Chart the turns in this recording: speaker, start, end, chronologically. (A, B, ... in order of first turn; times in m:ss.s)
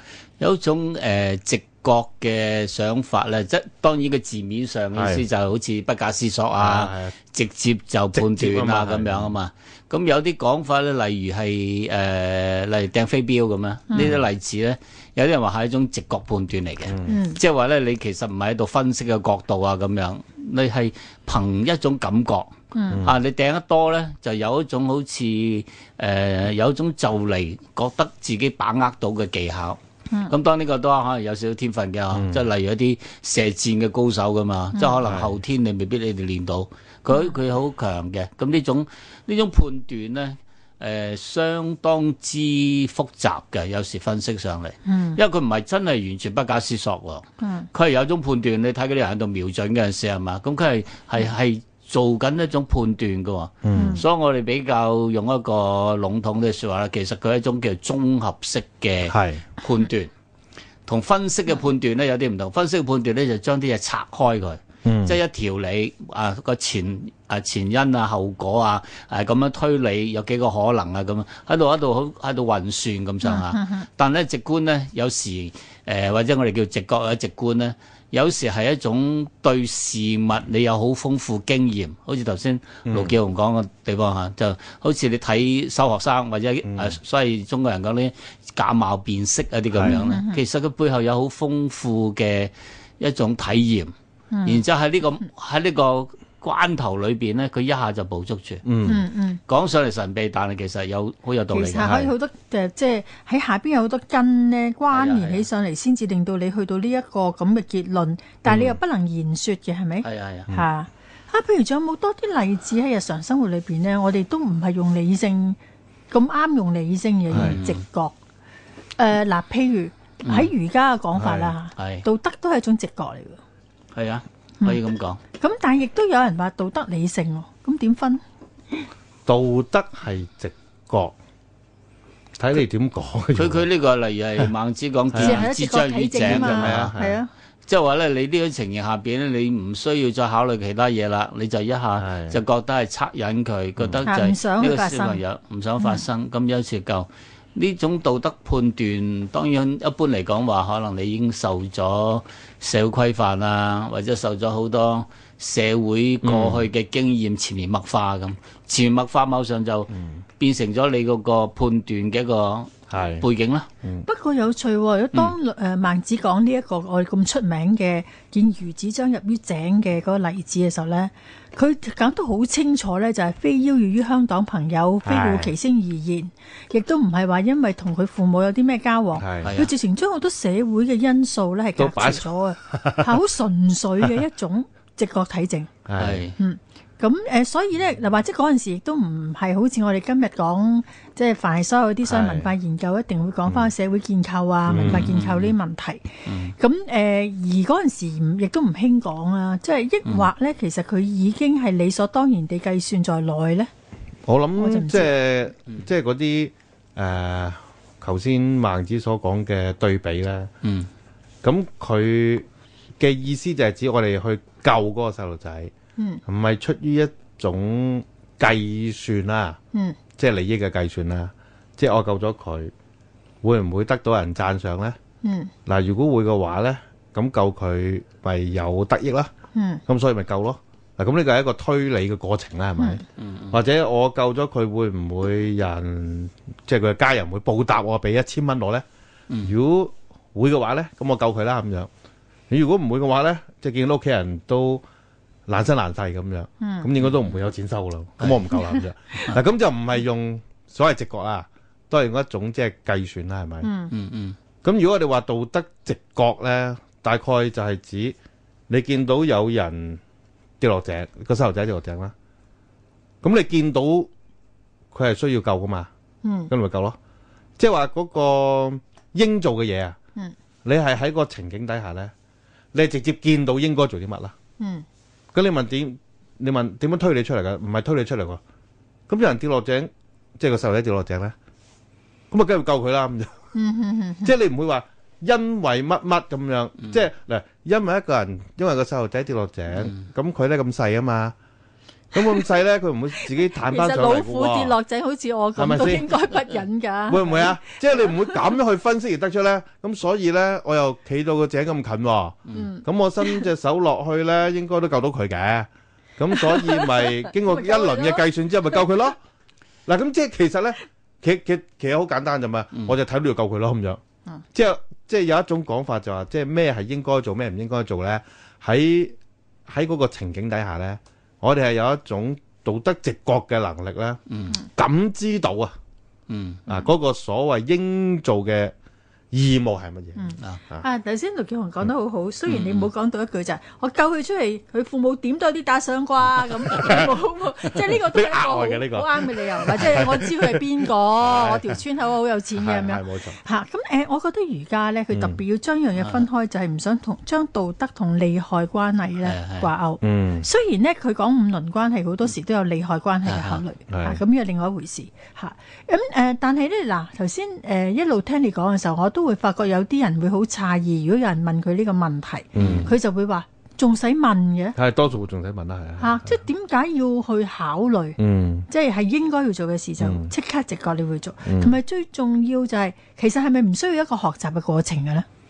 0:00.4-1:00.1 A
0:04.9-0:05.3 B
0:06.6-0:07.2 B
0:08.1-0:09.4 B
0:16.9-0:17.2 B
0:17.1-0:17.4 C
0:22.7-0:23.0 C
0:22.9-0:23.1 B
0:32.1-0:32.4 B
0:35.0-0:35.3 B
0:44.8-0:45.2 C
0:47.4-0:47.7 C
0:53.6-0:54.0 B
0:53.7-0:54.0 C
0:59.1-0:59.5 B
1:00.9-1:33.9 A
1:04.8-1:05.2 B
1:13.2-1:13.8 C
1:22.9-1:23.2 B
1:26.6-1:27.0 B
1:29.7-1:30.0 B
1:29.9-1:30.4 C
1:34.3-1:34.6 C
1:34.4-1:38.7 A
1:38.6-1:39.0 B
1:38.8-1:39.4 C
1:39.5-1:41.9 A
1:41.5-1:55.6 C
1:41.8-1:42.1 B
1:44.9-1:45.5 A
1:48.5-1:48.8 B
1:50.0-1:50.5 A
1:56.1-1:58.2 C
1:57.3-1:57.8 A
1:59.0-2:03.4 C
2:00.2-2:00.5 A
2:01.2-2:01.6 B
2:01.8-2:02.0 A
2:03.9-2:05.2 A
2:05.4-2:08.2 C
2:09.3-2:11.2 B
2:12.4-2:13.7 B
2:13.4-2:17.0 A
2:15.1-2:15.5 B
2:15.2-2:17.3 C
2:16.2-2:17.2 B
2:17.7-2:43.7 A
2:22.0-2:22.4 B
2:24.0-2:25.2 C
2:36.2-2:36.7 B
2:42.9-2:43.3 B
2:44.1-3:05.7 C
2:55.0-2:55.5 B
2:59.2-2:59.5 B
2:59.4-2:59.7 A
3:01.8-3:03.2 B
3:05.9-3:06.2 B
3:06.0-3:06.4 A
3:06.4-3:23.7 C
3:12.1-3:12.5 B
3:14.7-3:15.1 B
3:14.7-3:15.6 A
3:16.2-3:16.6 A
3:24.3-3:30.5 B
3:24.6-3:25.2 C
3:30.6-3:30.9 A
3:31.4-3:32.5 B
3:33.0-3:35.7 B
3:36.0-3:36.2 C
3:36.3-3:39.6 B
3:40.2-3:42.7 B
3:43.4-3:45.0 B
3:45.2-3:45.5 C
3:45.7-3:49.3 B
3:49.5-3:49.8 C
3:49.9-3:58.8 B
3:53.2-3:53.6 A
3:59.4-4:01.9 B
4:02.5-4:04.8 B
4:05.5-4:13.7 B
4:06.6-4:06.9 C
4:13.6-4:13.9 C
4:13.9-4:14.4 A
4:14.6-4:18.2 B
4:18.7-4:20.0 B
4:20.6-4:22.1 B
4:23.2-4:24.1 B
4:24.9-4:25.9 B
4:26.2-4:26.5 C
4:26.5-4:27.0 B
4:27.6-4:30.0 B
4:30.6-4:32.1 B
4:32.7-4:34.3 B
4:34.6-4:34.9 C
4:35.3-4:38.4 B
4:39.1-4:41.4 B
4:42.3-4:43.4 B
4:43.5-4:44.3 C
4:44.2-4:51.3 B
4:49.8-4:50.0 A
4:52.1-4:54.8 B
4:53.2-4:58.5 C
4:55.6-4:56.2 B
4:57.1-5:09.2 B
5:06.4-5:08.3 C
5:09.9-5:14.0 B
5:14.5-5:19.2 B
5:19.7-5:25.8 B
5:24.3-5:24.6 A
5:26.3-5:26.6 A
5:26.7-5:28.7 B
5:29.3-5:30.9 B
5:30.2-6:04.8 C
5:32.5-5:32.9 A
5:38.0-5:41.8 B
5:42.6-5:43.4 B
5:45.1-5:45.4 B
5:46.0-5:46.2 A
5:49.2-5:49.7 A
5:50.0-5:50.5 B
5:53.2-5:53.6 A
5:53.9-5:54.2 B
6:02.6-6:02.9 B
6:02.6-6:02.9 A
6:04.8-6:06.4 B
6:06.0-6:15.3 C
6:08.2-6:08.7 B
6:10.0-6:10.3 B
6:11.4-6:11.8 B